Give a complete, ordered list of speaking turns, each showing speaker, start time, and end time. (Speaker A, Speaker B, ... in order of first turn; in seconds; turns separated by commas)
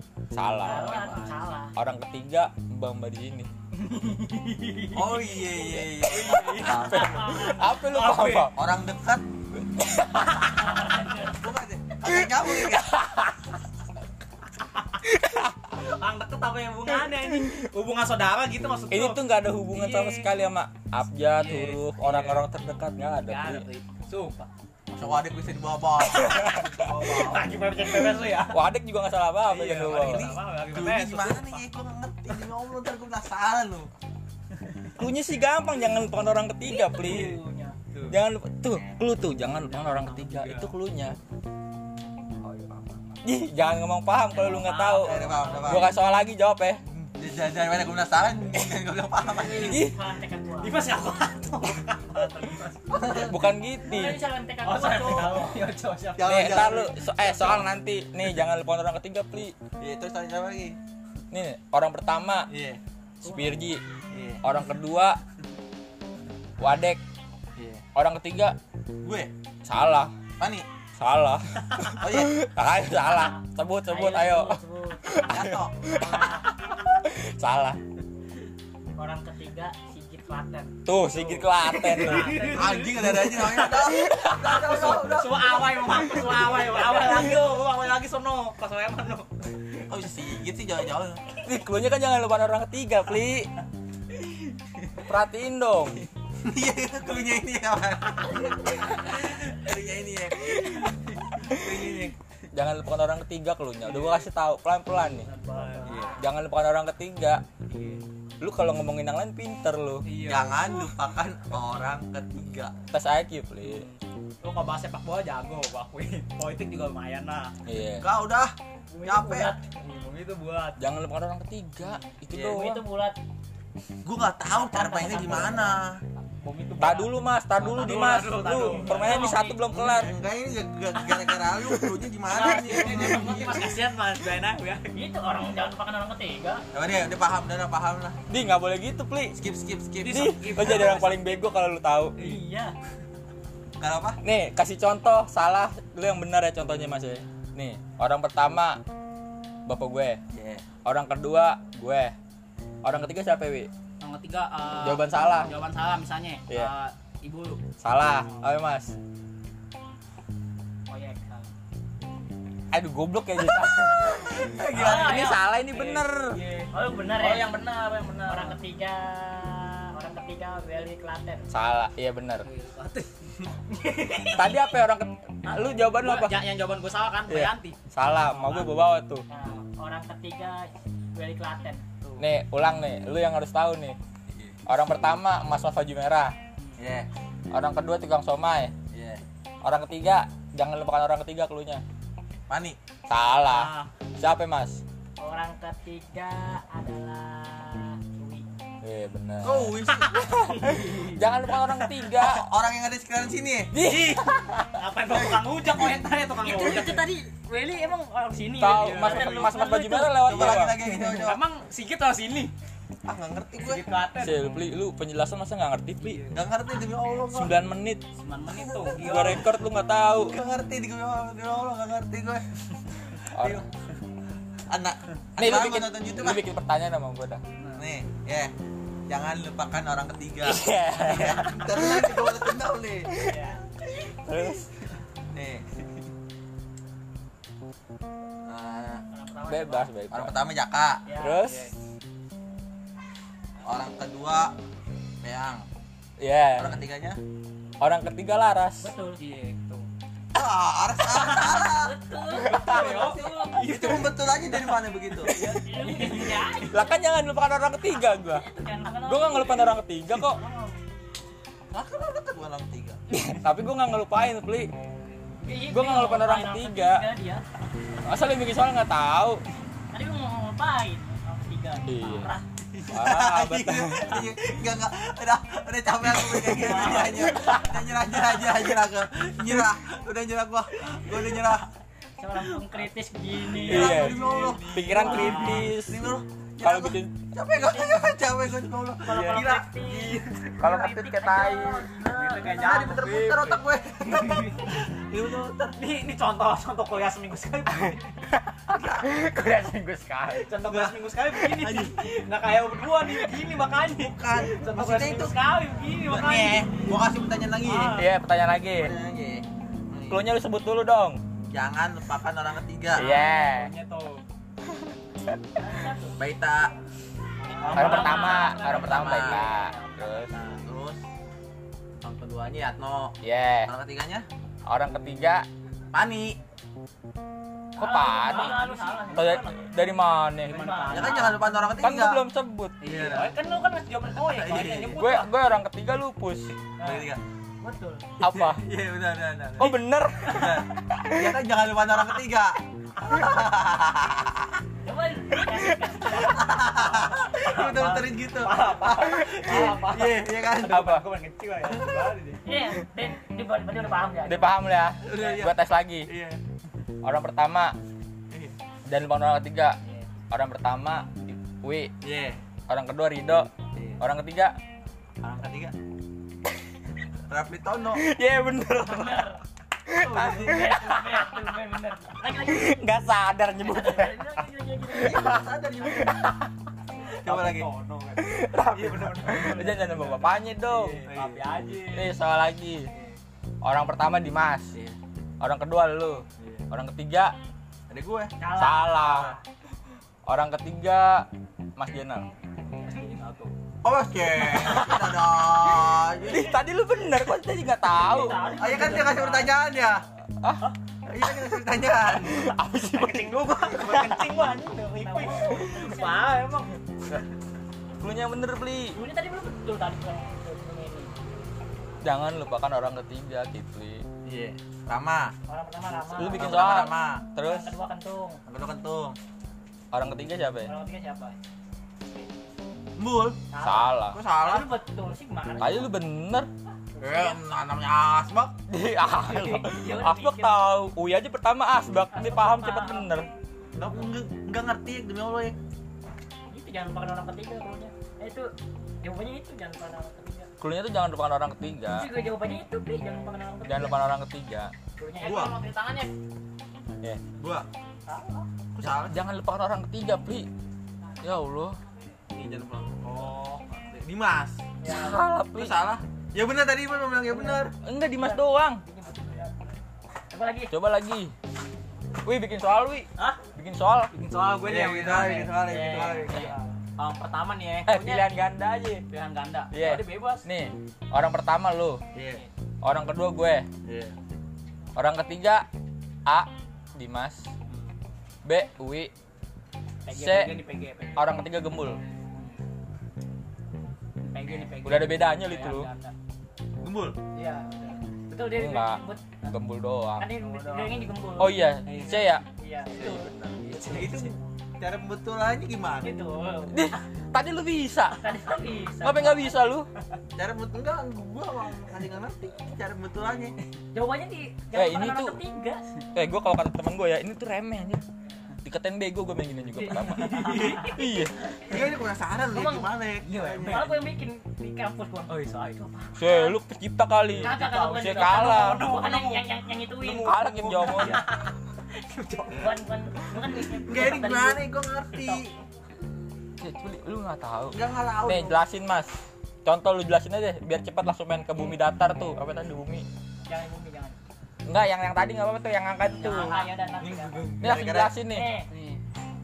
Speaker A: 0.3-3.5, Speaker B: 0.6-1.7, Speaker C: 0.7-1.1, Speaker C: 3.8-8.5, Speaker D: 4.9-7.4, Speaker A: 6.5-8.6, Speaker B: 7.0-7.5, Speaker D: 8.5-9.2, Speaker A: 9.8-10.4, Speaker B: 10.4-11.4, Speaker D: 11.3-13.0, Speaker A: 12.1-13.4, Speaker A: 15.0-15.6, Speaker C: 15.7-19.2, Speaker A: 18.9-23.7, Speaker C: 19.7-20.3, Speaker C: 21.4-22.5, Speaker C: 23.2-24.5, Speaker D: 24.9-27.4, Speaker A: 26.2-26.6, Speaker C: 26.4-28.6, Speaker A: 28.5-30.3, Speaker C: 29.4-31.6, Speaker D: 29.9-33.9, Speaker A: 35.0-37.4, Speaker C: 36.9-38.2, Speaker B: 36.9-37.4, Speaker A: 38.1-41.2, Speaker C: 39.8-40.7, Speaker D: 42.4-43.0, Speaker A: 43.2-46.8, Speaker C: 44.3-45.7, Speaker D: 45.0-45.9, Speaker B: 45.4-45.9, Speaker D: 47.0-49.8, Speaker B: 49.4-50.9, Speaker A: 49.6-50.0, Speaker C: 50.6-53.0, Speaker D: 52.9-53.4, Speaker A: 53.1-54.2, Speaker B: 53.9-55.6, Speaker C: 54.6-56.8, Speaker D: 56.2-57.6, Speaker A: 56.2-59.6, Speaker D: 59.8-60.8, Speaker A: 61.3-62.5, Speaker D: 62.5-62.8, Speaker A: 63.2-63.8, Speaker B: 63.2-63.6, Speaker D: 64.1-64.4, Speaker A: 64.4-65.2, Speaker A: 66.6-67.0, Speaker D: 67.6-67.8, Speaker A: 68.0-68.6, Speaker D: 69.0-69.3, Speaker A: 69.7-70.1, Speaker D: 70.4-70.7, Speaker A: 71.0-77.8, Speaker D: 72.0-72.3, Speaker B: 73.0-76.6, Speaker D: 75.3-76.2, Speaker B: 79.0-80.7, Speaker A: 80.9-82.4, Speaker C: 81.1-83.7, Speaker B: 81.9-82.8, Speaker D: 82.4-86.5, Speaker A: 83.3-85.1, Speaker C: 84.5-89.3, Speaker D: 89.9-91.3, Speaker A: 91.4-93.5, Speaker A: 95.0-96.0, Speaker D: 96.4-100.7, Speaker A: 100.5-100.8, Speaker D: 101.5-102.1, Speaker A: 102.5-105.3, Speaker C: 103.8-104.3, Speaker B: 105.3-106.2, Speaker C: 105.4-106.1, Speaker D: 105.8-106.2, Speaker A: 106.2-107.4, Speaker C: 107.7-108.0, Speaker A: 108.4-110.1, Speaker C: 110.0-110.9, Speaker D: 110.2-112.8, Speaker A: 112.9-113.9, Speaker C: 113.6-117.5, Speaker A: 117.7-118.1, Speaker D: 118.0-119.5, Speaker B: 118.9-119.7, Speaker C: 119.8-120.8, Speaker A: 120.8-122.8, Speaker D: 122.3-122.6, Speaker B: 122.5-123.2, Speaker D: 124.0-126.0, Speaker B: 124.5-125.8, Speaker C: 126.4-129.1, Speaker A: 126.8-130.1, Speaker B: 128.8-129.6, Speaker D: 129.7-133.7, Speaker C: 131.0-131.4, Speaker A: 131.6-133.6, Speaker C: 132.3-135.0, Speaker B: 134.9-136.6, Speaker D: 136.7-138.2, Speaker A: 138.3-139.4, Speaker D: 139.3-140.9, Speaker C: 140.0-141.3, Speaker A: 140.1-142.3, Speaker B: 142.2-142.8, Speaker D: 143.8-144.2, Speaker A: 144.2-148.8, Speaker A: 149.7-150.2, Speaker D: 150.3-150.7, Speaker A: 150.8-152.2, Speaker A: 152.8-153.7, Speaker C: 154.0-157.6, Speaker A: 154.8-155.5, Speaker A: 157.8-158.9, Speaker B: 160.9-161.5, Speaker A: 162.7-166.4, Speaker D: 164.2-165.1, Speaker C: 164.6-168.6, Speaker B: 166.7-167.6, Speaker B: 168.3-171.5, Speaker A: 171.5-172.5, Speaker C: 172.4-174.6, Speaker A: 174.3-176.4, Speaker C: 175.5-178.7, Speaker A: 177.3-179.2, Speaker B: 179.3-181.8, Speaker A: 182.2-184.0, Speaker D: 184.3-184.6, Speaker A: 184.7-186.3, Speaker D: 186.8-187.1, Speaker A: 187.5-188.7, Speaker D: 188.9-189.2, Speaker A: 189.6-191.8, Speaker D: 192.5-192.8, Speaker A: 193.1-194.8, Speaker C: 193.5-193.9, Speaker B: 195.2-198.5, Speaker A: 198.8-199.8, Speaker D: 199.4-200.3, Speaker C: 199.9-201.2, Speaker A: 200.3-202.4, Speaker D: 202.3-203.7, Speaker A: 203.7-204.4, Speaker C: 203.8-207.1, Speaker D: 205.1-206.0, Speaker B: 206.4-210.2, Speaker A: 208.6-210.8, Speaker C: 208.7-209.5, Speaker D: 210.2-211.4, Speaker C: 210.9-212.5, Speaker D: 213.1-213.8, Speaker C: 213.6-214.4, Speaker A: 214.2-216.2, Speaker C: 216.0-216.4, Speaker D: 216.3-217.5, Speaker A: 217.3-218.0, Speaker C: 218.2-219.5, Speaker D: 218.9-219.4, Speaker A: 218.9-220.3, Speaker D: 220.2-222.4, Speaker A: 223.3-223.6, Speaker D: 223.4-223.6, Speaker D: 224.7-226.4, Speaker A: 225.4-227.4, Speaker C: 227.6-227.9, Speaker D: 227.8-228.5, Speaker D: 229.1-233.1, Speaker A: 230.4-232.3, Speaker B: 233.2-233.6, Speaker A: 234.0-234.7, Speaker D: 235.3-235.6, Speaker D: 238.5-239.0, Speaker B: 239.1-239.9, Speaker A: 239.5-240.4, Speaker D: 240.1-241.0, Speaker B: 241.1-241.4, Speaker A: 241.2-241.7, Speaker C: 241.4-241.7, Speaker D: 243.7-244.5, Speaker D: 245.2-245.7, Speaker A: 246.2-246.8, Speaker D: 246.6-247.2, Speaker A: 247.8-248.9, Speaker B: 248.8-249.2, Speaker C: 249.2-249.9, Speaker D: 250.3-255.5, Speaker B: 251.3-253.3, Speaker A: 252.3-253.1, Speaker C: 252.5-254.8, Speaker B: 255.3-257.0, Speaker C: 255.4-256.8, Speaker A: 256.7-258.5, Speaker B: 257.9-259.8, Speaker A: 259.0-260.4, Speaker D: 261.7-263.0, Speaker A: 263.1-264.7, Speaker B: 265.4-267.4, Speaker A: 265.7-267.0, Speaker A: 268.1-269.4, Speaker B: 269.9-272.4, Speaker A: 271.9-272.3, Speaker A: 272.9-274.3, Speaker D: 272.9-281.7, Speaker B: 276.6-277.7, Speaker C: 276.6-277.1, Speaker A: 277.1-277.5, Speaker B: 282.2-284.1, Speaker C: 283.5-285.7, Speaker D: 283.6-290.2, Speaker A: 283.6-286.0, Speaker A: 286.6-287.3, Speaker B: 287.6-288.1, Speaker B: 289.1-292.8, Speaker A: 289.1-289.5, Speaker C: 289.8-290.2, Speaker A: 290.6-291.9, Speaker C: 292.2-294.8, Speaker D: 292.4-295.8, Speaker C: 295.8-298.2, Speaker A: 298.3-300.5, Speaker D: 298.7-299.0, Speaker C: 300.3-306.7, Speaker D: 300.6-302.0, Speaker D: 303.9-305.4, Speaker D: 306.1-308.0, Speaker C: 307.6-308.1, Speaker A: 307.9-308.9, Speaker D: 308.8-310.2, Speaker A: 310.1-311.2, Speaker D: 311.5-313.1, Speaker C: 312.9-314.2, Speaker A: 313.0-313.7, Speaker B: 315.6-316.2, Speaker D: 316.2-316.7, Speaker B: 317.4-318.7, Speaker C: 317.5-320.6, Speaker A: 317.7-320.3, Speaker D: 317.8-319.5, Speaker D: 320.4-321.0, Speaker D: 322.0-323.1, Speaker A: 323.2-323.7, Speaker D: 323.7-324.3, Speaker A: 324.7-325.5, Speaker D: 325.9-326.4, Speaker A: 327.8-328.6, Speaker B: 327.8-329.6, Speaker C: 328.2-329.4, Speaker A: 329.1-330.9, Speaker C: 330.5-331.4, Speaker B: 330.5-331.3, Speaker D: 330.9-332.2, Speaker A: 331.8-332.8, Speaker C: 332.8-335.3, Speaker D: 332.9-333.3, Speaker D: 334.2-335.0, Speaker A: 335.0-336.5, Speaker B: 336.8-337.1, Speaker D: 336.8-337.2, Speaker B: 337.6-338.0, Speaker A: 338.2-338.6, Speaker D: 338.2-339.7, Speaker A: 339.6-341.4, Speaker D: 340.3-344.4, Speaker B: 344.8-346.7, Speaker A: 345.5-346.1, Speaker D: 346.1-350.8, Speaker C: 346.8-352.4, Speaker A: 350.7-351.1, Speaker B: 352.4-354.6, Speaker A: 354.2-356.1, Speaker D: 355.0-356.4, Speaker A: 357.0-357.8, Speaker D: 358.3-358.6, Speaker A: 358.9-359.8, Speaker C: 359.8-360.1, Speaker A: 360.3-361.9, Speaker D: 362.0-362.4, Speaker A: 362.7-363.5, Speaker D: 363.7-364.0, Speaker A: 364.0-364.6, Speaker D: 365.2-365.8, Speaker D: 367.3-368.0, Speaker A: 367.9-369.3, Speaker B: 368.9-369.4, Speaker A: 369.9-371.6, Speaker B: 370.0-373.0, Speaker A: 372.2-375.4, Speaker B: 373.6-375.3, Speaker D: 375.0-376.3, Speaker A: 376.0-376.3, Speaker D: 377.2-377.7, Speaker C: 377.2-382.1, Speaker A: 378.2-381.0, Speaker D: 381.1-381.5, Speaker A: 381.9-382.9, Speaker A: 383.6-384.7, Speaker A: 385.4-387.3, Speaker D: 386.4-386.6, Speaker D: 387.9-388.3, Speaker B: 388.4-389.4, Speaker A: 388.5-389.4, Speaker A: 390.3-391.3, Speaker A: 391.8-392.3, Speaker C: 392.9-393.5, Speaker D: 393.8-396.5, Speaker A: 394.3-398.6, Speaker B: 397.8-399.5, Speaker D: 398.5-400.0, Speaker C: 398.8-399.3, Speaker D: 401.1-402.4, Speaker A: 402.1-403.3, Speaker C: 402.9-406.7, Speaker B: 403.8-406.2, Speaker A: 408.0-409.0, Speaker B: 408.9-411.1, Speaker A: 412.0-414.0, Speaker D: 414.2-415.3, Speaker B: 415.5-416.6, Speaker A: 416.1-417.7, Speaker D: 416.2-417.2, Speaker B: 417.4-418.4, Speaker D: 418.5-419.2, Speaker A: 419.9-420.7, Speaker B: 420.7-421.4, Speaker D: 423.0-423.4, Speaker B: 423.5-425.9, Speaker A: 423.6-424.2, Speaker D: 424.1-424.7, Speaker A: 425.6-426.5, Speaker B: 427.0-427.4, Speaker D: 427.0-428.6, Speaker A: 428.7-433.3, Speaker B: 429.1-430.6, Speaker B: 432.1-433.1, Speaker D: 433.7-435.6, Speaker B: 436.5-438.5, Speaker B: 439.0-440.5, Speaker A: 440.6-442.1, Speaker B: 441.9-444.0, Speaker A: 443.6-444.7, Speaker B: 445.0-446.1, Speaker C: 445.1-446.1, Speaker D: 445.2-445.6, Speaker D: 447.4-447.7, Speaker B: 448.1-448.5, Speaker D: 448.8-449.2, Speaker A: 449.0-450.5, Speaker A: 451.2-451.8, Speaker D: 452.3-454.6, Speaker B: 454.8-455.3, Speaker A: 454.8-455.8, Speaker D: 455.5-457.7, Speaker B: 457.3-457.6, Speaker A: 457.8-458.8, Speaker B: 458.2-459.8, Speaker B: 460.3-460.7, Speaker A: 460.7-461.3, Speaker A: 462.2-464.1, Speaker C: 464.1-468.2, Speaker D: 464.6-466.6, Speaker B: 465.7-466.4, Speaker A: 467.9-469.0, Speaker C: 469.1-470.4, Speaker A: 469.7-472.0, Speaker D: 472.1-472.4, Speaker A: 472.8-473.7, Speaker D: 473.9-474.1, Speaker A: 475.0-475.7, Speaker A: 476.3-477.4, Speaker C: 477.7-477.9, Speaker A: 478.4-479.1, Speaker C: 480.1-481.3, Speaker A: 480.1-480.6, Speaker A: 481.1-482.0, Speaker C: 484.2-486.1, Speaker A: 484.9-485.9, Speaker D: 486.8-487.2, Speaker C: 487.4-488.0, Speaker B: 488.3-489.2, Speaker A: 488.5-490.3, Speaker B: 490.2-491.6, Speaker C: 490.4-491.1, Speaker A: 491.4-494.2, Speaker C: 491.9-492.3, Speaker B: 492.6-493.3, Speaker C: 493.6-494.3, Speaker D: 493.8-496.2, Speaker B: 496.0-496.8, Speaker A: 496.7-498.2, Speaker B: 498.1-499.6, Speaker A: 499.0-499.9, Speaker D: 500.4-503.6, Speaker B: 503.9-505.8, Speaker A: 504.7-505.4, Speaker A: 506.1-508.0, Speaker A: 508.6-511.4, Speaker B: 509.8-511.0, Speaker C: 510.0-511.0, Speaker D: 511.6-513.9, Speaker B: 512.5-513.0, Speaker C: 513.2-514.0, Speaker B: 513.6-515.4, Speaker C: 515.3-516.2, Speaker A: 516.2-518.9, Speaker B: 516.2-516.6, Speaker C: 517.3-522.7, Speaker B: 517.4-520.4, Speaker A: 520.0-521.2, Speaker D: 520.9-521.2, Speaker B: 522.5-525.4, Speaker D: 523.8-525.5, Speaker A: 526.6-529.1, Speaker D: 527.7-528.6, Speaker A: 529.6-533.1, Speaker B: 533.5-534.2, Speaker A: 534.7-536.6, Speaker B: 536.1-537.5, Speaker C: 536.2-536.8, Speaker D: 537.0-538.1, Speaker A: 537.6-538.5, Speaker B: 538.3-538.7, Speaker C: 538.7-539.0